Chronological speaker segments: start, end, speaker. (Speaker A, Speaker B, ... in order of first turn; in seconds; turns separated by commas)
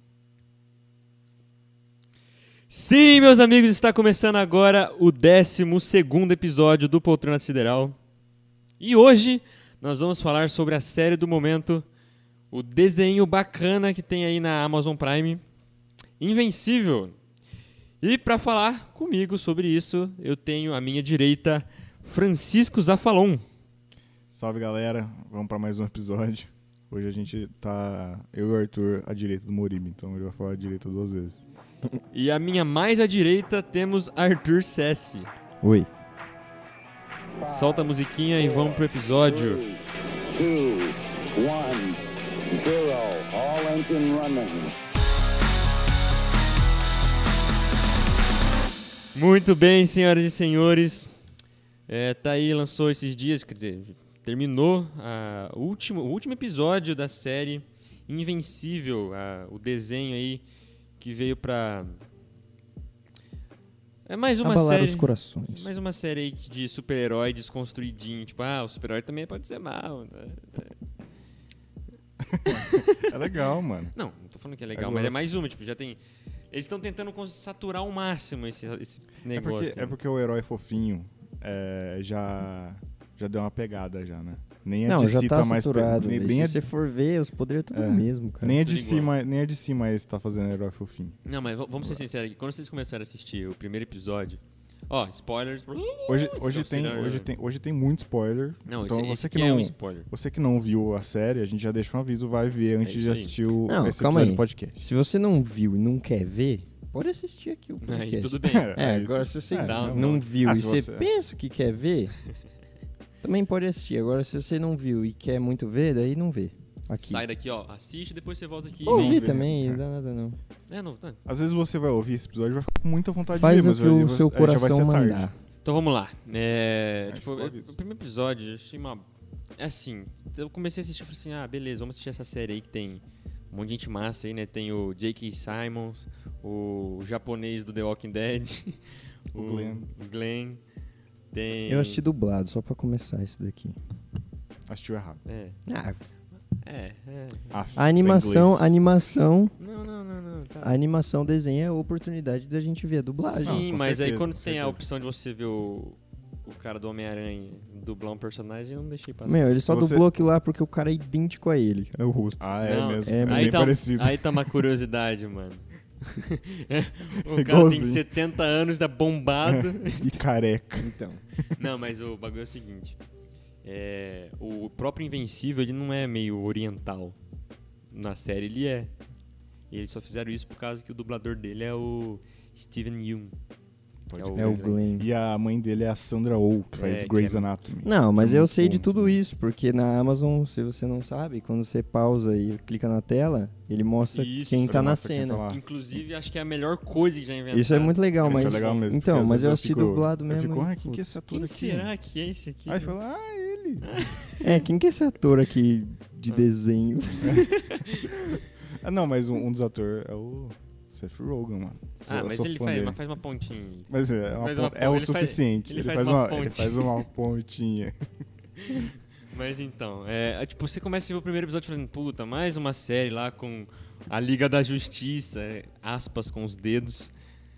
Speaker A: 2.7-8.0, Speaker A: 8.8-11.9, Speaker A: 12.5-15.4, Speaker A: 16.2-17.1, Speaker A: 18.0-23.4, Speaker B: 24.3-31.4, Speaker A: 32.1-35.3, Speaker C: 35.6-35.9, Speaker D: 37.4-39.8, Speaker A: 37.4-39.6, Speaker D: 40.3-44.7, Speaker A: 49.1-51.1, Speaker A: 51.9-60.4, Speaker A: 61.0-62.0, Speaker A: 64.1-70.8, Speaker C: 64.4-65.7, Speaker B: 72.3-73.9, Speaker A: 72.5-73.1, Speaker A: 73.9-76.0, Speaker B: 74.8-75.2, Speaker A: 76.5-80.0, Speaker B: 79.3-86.6, Speaker C: 84.9-88.6, Speaker B: 87.7-91.2, Speaker A: 88.6-89.1, Speaker A: 91.2-97.3, Speaker B: 96.1-104.8, Speaker A: 98.7-100.1, Speaker A: 102.8-103.4, Speaker C: 103.7-112.2, Speaker A: 107.8-108.8, Speaker B: 108.4-111.1, Speaker A: 109.5-110.2, Speaker C: 113.2-117.2, Speaker A: 117.0-119.2, Speaker B: 118.8-119.8, Speaker C: 118.9-120.4, Speaker A: 120.7-121.2, Speaker B: 121.3-125.3, Speaker C: 123.3-125.3, Speaker A: 125.6-129.1, Speaker B: 127.1-127.7, Speaker A: 129.6-140.6, Speaker B: 139.3-139.9, Speaker A: 141.3-142.0, Speaker C: 141.7-143.8, Speaker B: 144.7-145.2, Speaker A: 145.2-145.6, Speaker C: 145.7-146.0, Speaker A: 146.6-147.6, Speaker B: 147.5-148.8, Speaker C: 147.8-149.5, Speaker A: 149.6-150.8, Speaker C: 150.6-153.6, Speaker B: 153.4-154.8, Speaker A: 153.4-159.4, Speaker C: 159.2-162.5, Speaker B: 159.7-160.1, Speaker B: 162.4-164.5, Speaker A: 162.6-170.1, Speaker C: 163.0-163.8, Speaker B: 167.3-168.1, Speaker B: 169.5-171.5, Speaker C: 170.8-171.2, Speaker A: 171.6-173.0, Speaker A: 173.6-177.2, Speaker A: 177.9-178.9, Speaker A: 179.7-183.4, Speaker B: 184.1-189.2, Speaker A: 184.1-184.8, Speaker C: 184.3-185.1, Speaker A: 186.8-187.5, Speaker C: 187.8-195.5, Speaker A: 194.1-194.9, Speaker B: 194.7-195.6, Speaker A: 195.5-198.9, Speaker C: 197.5-201.1, Speaker B: 198.2-201.9, Speaker A: 201.3-202.9, Speaker B: 202.7-203.9, Speaker A: 203.8-204.6, Speaker C: 204.4-207.5, Speaker A: 207.3-208.1, Speaker B: 208.8-213.0, Speaker A: 212.1-217.0, Speaker B: 213.9-218.1, Speaker A: 218.6-227.1